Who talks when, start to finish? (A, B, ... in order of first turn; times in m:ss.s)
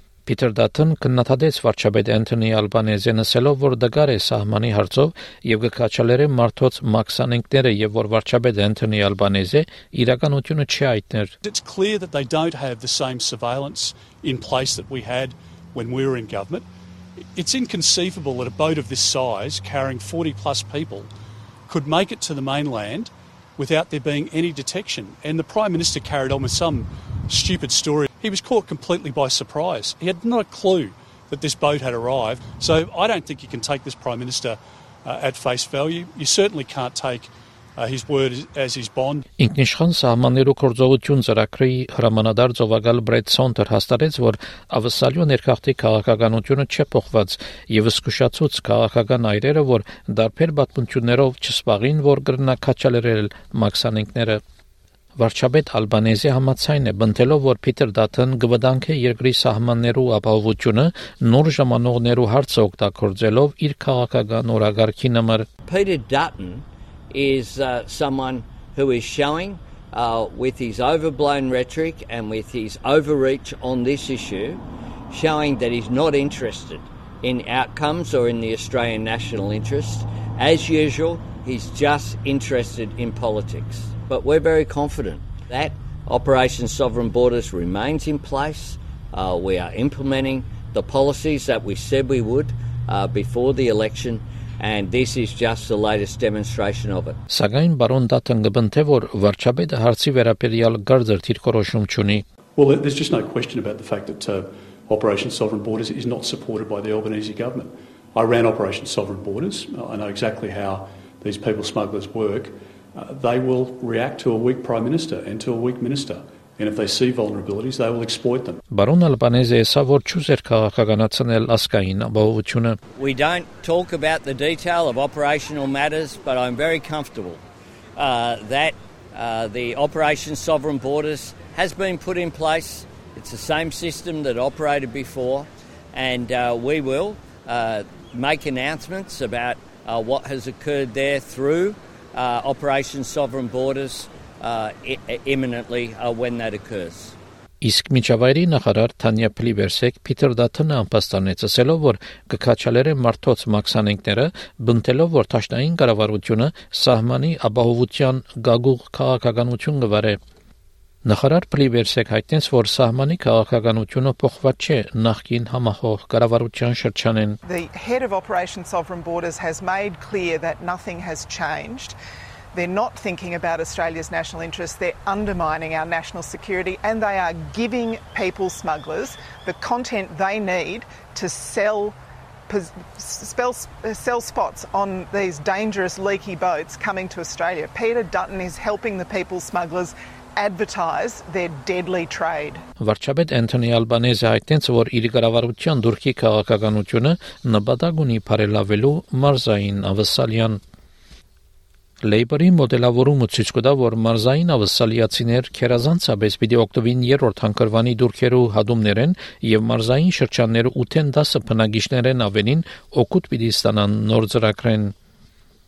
0:00.2-0:11.3 A
0:11.4-0:16.6 B
0:17.3-0:21.1 B
0:21.7-0:39.2 B
0:39.4-0:54.4 A
0:55.2-1:05.4 A
1:05.6-1:37.2 C
1:37.3-1:42.2 A
1:42.6-1:58.6 B
1:58.7-2:02.8 A
2:03.0-2:07.4 C
2:08.0-2:27.2 C
2:27.6-2:40.2 A
2:41.0-2:47.4 A
2:47.4-2:52.0 D
2:52.5-3:02.0 D
3:02.5-3:12.6 D
3:12.8-3:20.6 A
3:22.0-3:34.9 A